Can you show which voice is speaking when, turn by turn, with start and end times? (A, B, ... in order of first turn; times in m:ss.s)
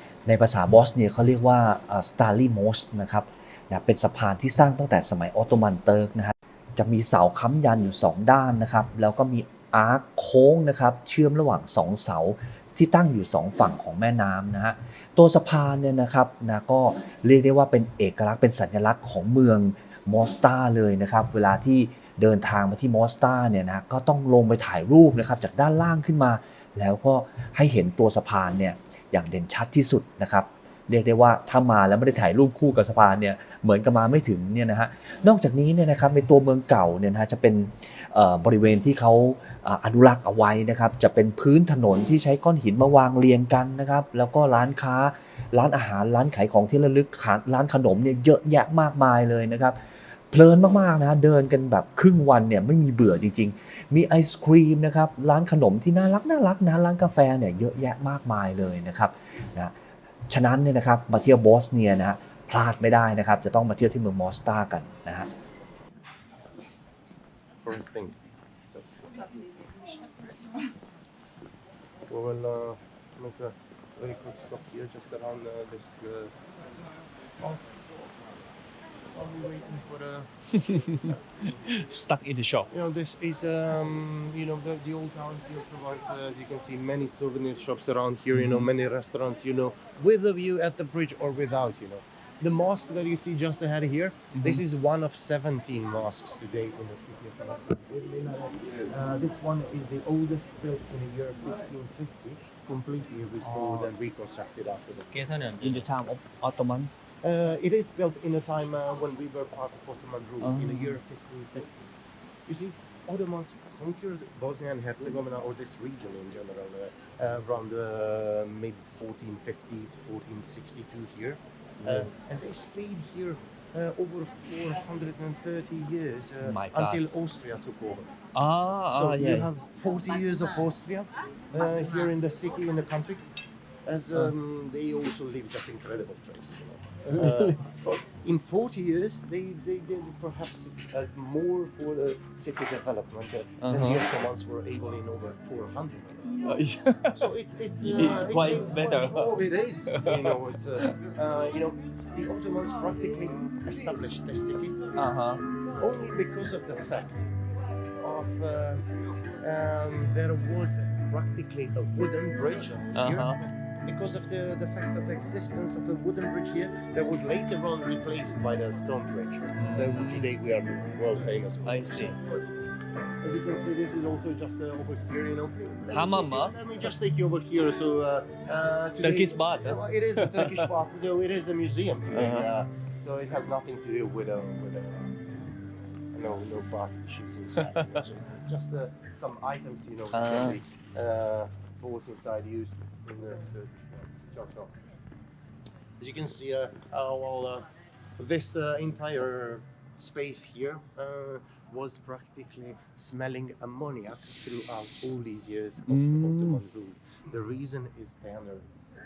0:00.2-0:49.8 A
0:50.3-0:59.7 A
1:00.3-1:05.3 A
1:07.6-1:08.2 B
1:08.7-1:09.2 B
1:12.1-1:16.3 B
1:17.4-1:17.8 B
1:19.1-1:20.3 B
1:20.6-1:22.6 C
1:22.0-1:22.6 A
1:22.7-1:45.3 B
1:45.1-1:46.3 C
1:45.6-1:46.9 A
1:47.2-1:51.9 B
1:50.5-1:50.8 C
1:52.4-2:08.1 B
2:06.4-2:07.0 A
2:08.3-2:09.5 C
2:08.9-2:13.2 B
2:13.8-2:26.4 B
2:17.2-2:17.5 C
2:23.6-2:24.0 C
2:26.4-2:27.2 C
2:27.1-2:34.8 B
2:27.8-2:29.4 C
2:29.9-2:30.8 C
2:35.0-2:35.4 C
2:35.8-2:37.3 B
2:38.0-2:52.2 B
2:42.9-2:43.4 C
2:49.6-2:50.1 C
2:51.6-2:52.2 C
2:53.2-3:05.2 B
2:55.9-2:56.5 C
2:59.0-3:00.7 C
3:02.1-3:02.5 C
3:06.1-3:14.7 B
3:07.7-3:08.0 C
3:10.1-3:10.6 C
3:16.0-3:28.6 B
3:25.9-3:26.6 C